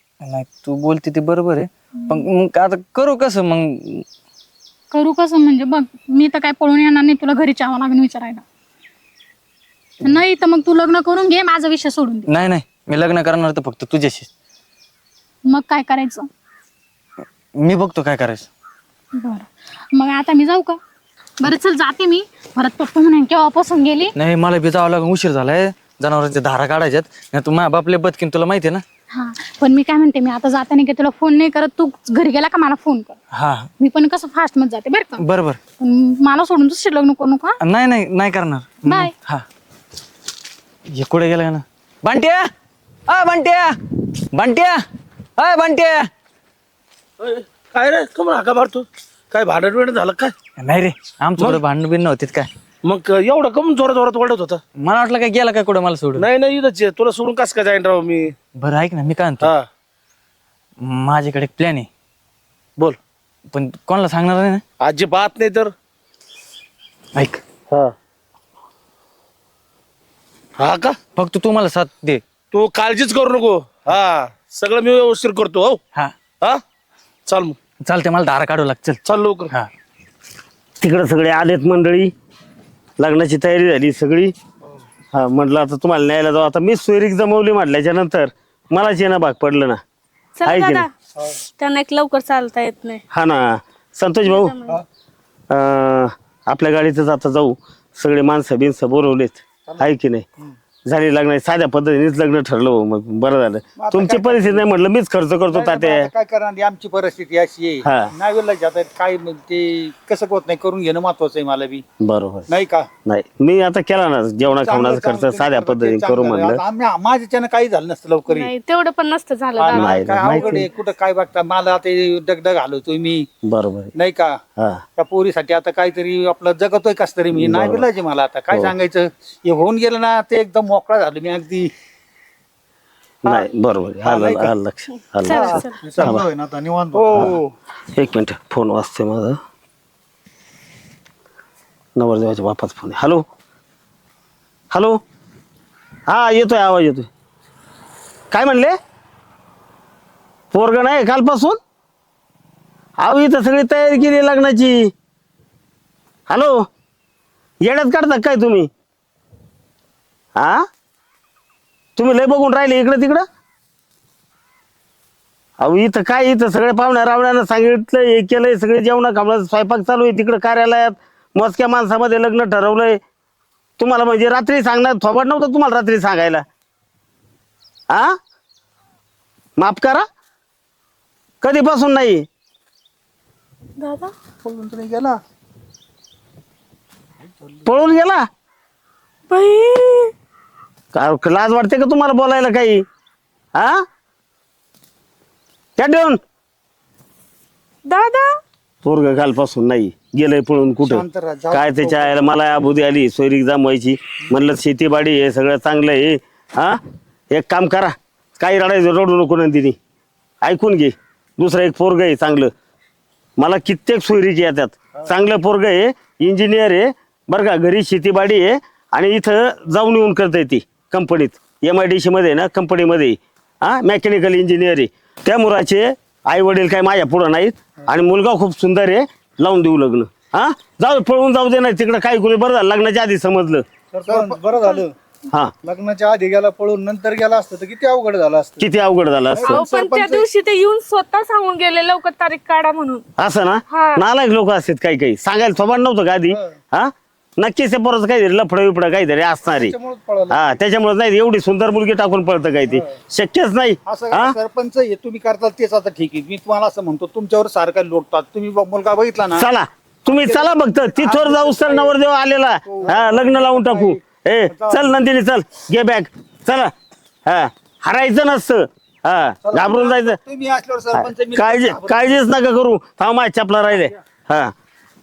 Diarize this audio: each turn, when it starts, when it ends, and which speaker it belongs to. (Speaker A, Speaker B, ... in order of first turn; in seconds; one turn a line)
Speaker A: 0.2-4.0
Speaker B: 4.9-8.4
Speaker B: 10.0-12.3
Speaker A: 12.3-14.3
Speaker B: 15.4-16.3
Speaker A: 17.6-18.5
Speaker B: 19.1-20.8
Speaker B: 21.4-24.1
Speaker A: 24.1-28.8
Speaker B: 29.1-33.2
Speaker A: 33.3-33.7
Speaker B: 33.8-35.2
Speaker A: 35.2-35.6
Speaker B: 35.8-37.6
Speaker A: 37.6-39.4
Speaker B: 38.8-39.1
Speaker A: 40.9-42.4
Speaker A: 43.1-43.7
Speaker A: 44.3-44.8
Speaker A: 45.4-46.0
Speaker C: 47.2-50.3
Speaker A: 50.6-52.5
Speaker C: 52.8-54.6
Speaker A: 54.8-56.3
Speaker C: 56.1-58.3
Speaker A: 58.5-59.5
Speaker A: 60.8-61.9
Speaker A: 63.5-64.6
Speaker C: 64.8-65.7
Speaker A: 67.1-67.4
Speaker C: 70.6-71.0
Speaker A: 71.2-72.2
Speaker C: 72.5-75.8
Speaker C: 77.2-77.5
Speaker A: 77.8-79.0
Speaker C: 79.0-79.5
Speaker D: 80.8-82.1
Speaker D: 83.0-84.3
Speaker D: 85.1-89.8
Speaker E: 90.4-90.9
Speaker D: 90.4-90.8
Speaker E: 91.6-93.0
Speaker D: 93.1-94.5
Speaker E: 94.2-94.8
Speaker D: 95.5-100.2
Speaker D: 100.8-106.1
Speaker F: 103.8-104.7
Speaker F: 105.5-111.8
Speaker D: 107.8-108.1
Speaker D: 112.0-112.5
Speaker F: 112.5-112.9
Speaker D: 113.0-116.6
Speaker F: 114.5-118.5
Speaker E: 118.3-120.6
Speaker F: 119.6-123.3
Speaker D: 119.7-120.7
Speaker D: 123.5-123.9
Speaker F: 123.9-124.4
Speaker D: 124.6-124.8
Speaker F: 125.0-131.7
Speaker D: 127.3-127.8
Speaker D: 133.2-136.2
Speaker F: 134.0-134.5
Speaker E: 135.2-135.8
Speaker F: 135.2-136.3
Speaker G: 135.8-137.0
Speaker F: 136.9-137.5
Speaker D: 137.9-139.4
Speaker D: 141.9-143.2
Speaker D: 144.7-145.0
Speaker D: 146.1-147.1
Speaker D: 148.3-148.7
Speaker D: 150.5-151.6
Speaker D: 153.0-154.9
Speaker D: 156.3-156.6
Speaker D: 157.6-158.7
Speaker D: 160.4-160.6
Speaker D: 162.0-163.2
Speaker D: 165.6-173.0
Speaker D: 173.8-176.4
Speaker D: 177.9-178.1
Speaker D: 179.6-180.0
Speaker D: 181.4-182.2
Speaker E: 183.8-184.1
Speaker F: 184.4-185.2
Speaker D: 187.7-188.2
Speaker E: 189.3-190.1
Speaker D: 190.9-192.8
Speaker D: 193.5-193.8
Speaker D: 195.8-196.2
Speaker E: 197.8-198.3
Speaker D: 198.8-206.8
Speaker F: 200.8-202.3
Speaker D: 207.3-209.8
Speaker D: 210.4-212.5
Speaker D: 213.4-233.6
Speaker F: 234.1-234.8
Speaker G: 234.1-234.7
Speaker E: 234.4-234.8
Speaker F: 235.7-236.0
Speaker G: 236.7-238.0
Speaker D: 238.6-239.6
Speaker E: 239.4-243.0
Speaker D: 243.2-249.7
Speaker E: 243.7-244.0
Speaker G: 249.6-250.3
Speaker D: 250.3-254.3
Speaker F: 253.8-259.5
Speaker D: 259.3-266.7
Speaker F: 260.1-261.9
Speaker F: 262.6-264.9
Speaker D: 267.2-270.2
Speaker F: 269.4-272.1
Speaker D: 270.9-274.5